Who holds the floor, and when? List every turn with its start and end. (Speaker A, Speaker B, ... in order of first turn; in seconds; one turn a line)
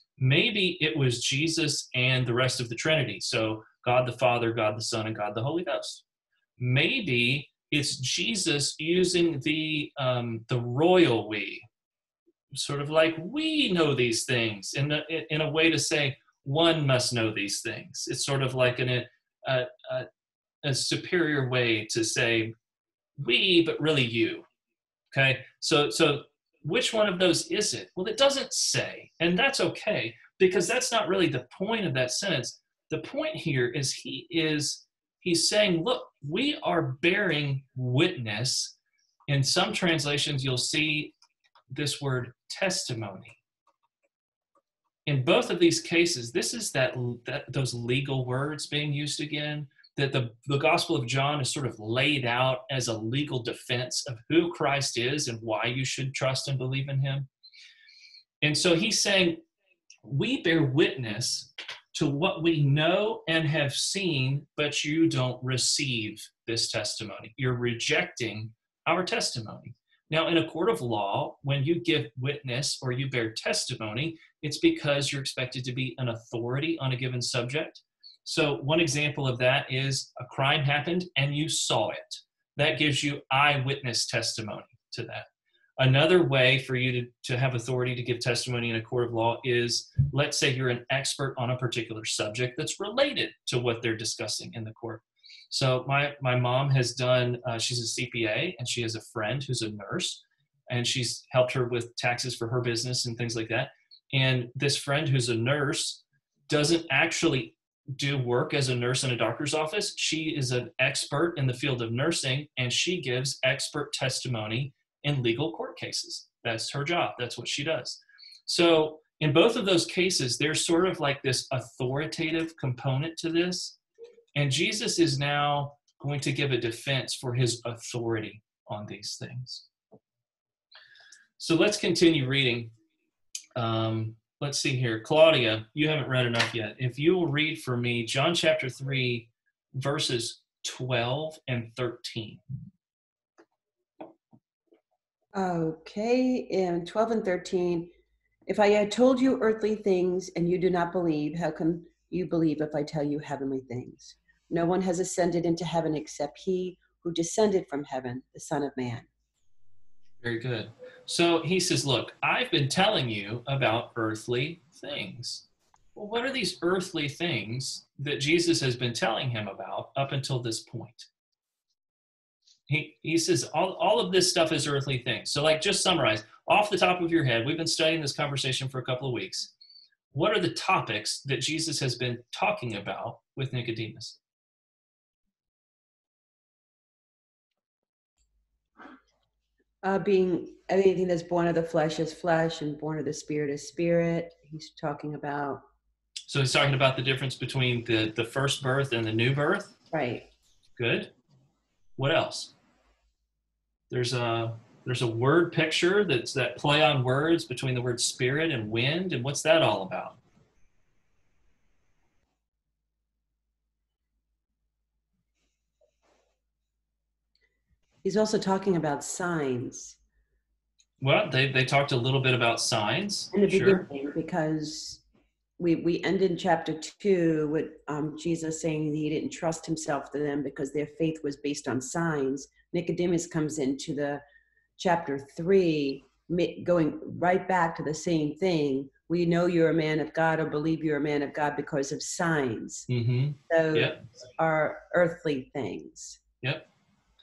Speaker A: 0.2-6.0
Speaker A: 6.6-11.7
Speaker A: 12.5-20.1
Speaker A: 20.6-22.5
Speaker A: 23.2-24.4
Speaker A: 25.1-38.7
Speaker A: 39.3-41.1
Speaker A: 41.7-43.4
Speaker A: 45.0-57.3
Speaker A: 58.4-59.4
Speaker A: 60.0-85.3
Speaker A: 85.8-123.8
Speaker A: 124.3-129.7
Speaker A: 131.4-132.7
Speaker A: 133.6-142.4
Speaker B: 145.3-147.9
Speaker B: 148.5-159.1
Speaker A: 160.2-171.1
Speaker A: 172.7-179.5
Speaker A: 180.1-184.2
Speaker B: 189.8-195.6
Speaker A: 196.3-199.7
Speaker B: 199.9-200.3
Speaker A: 200.8-201.1
Speaker A: 202.0-202.5
Speaker A: 203.9-210.2
Speaker B: 218.0-220.0
Speaker A: 221.0-223.8
Speaker B: 223.3-225.0
Speaker B: 225.6-234.2
Speaker B: 234.8-242.9
Speaker A: 242.9-244.0
Speaker B: 243.5-246.2
Speaker A: 246.4-246.7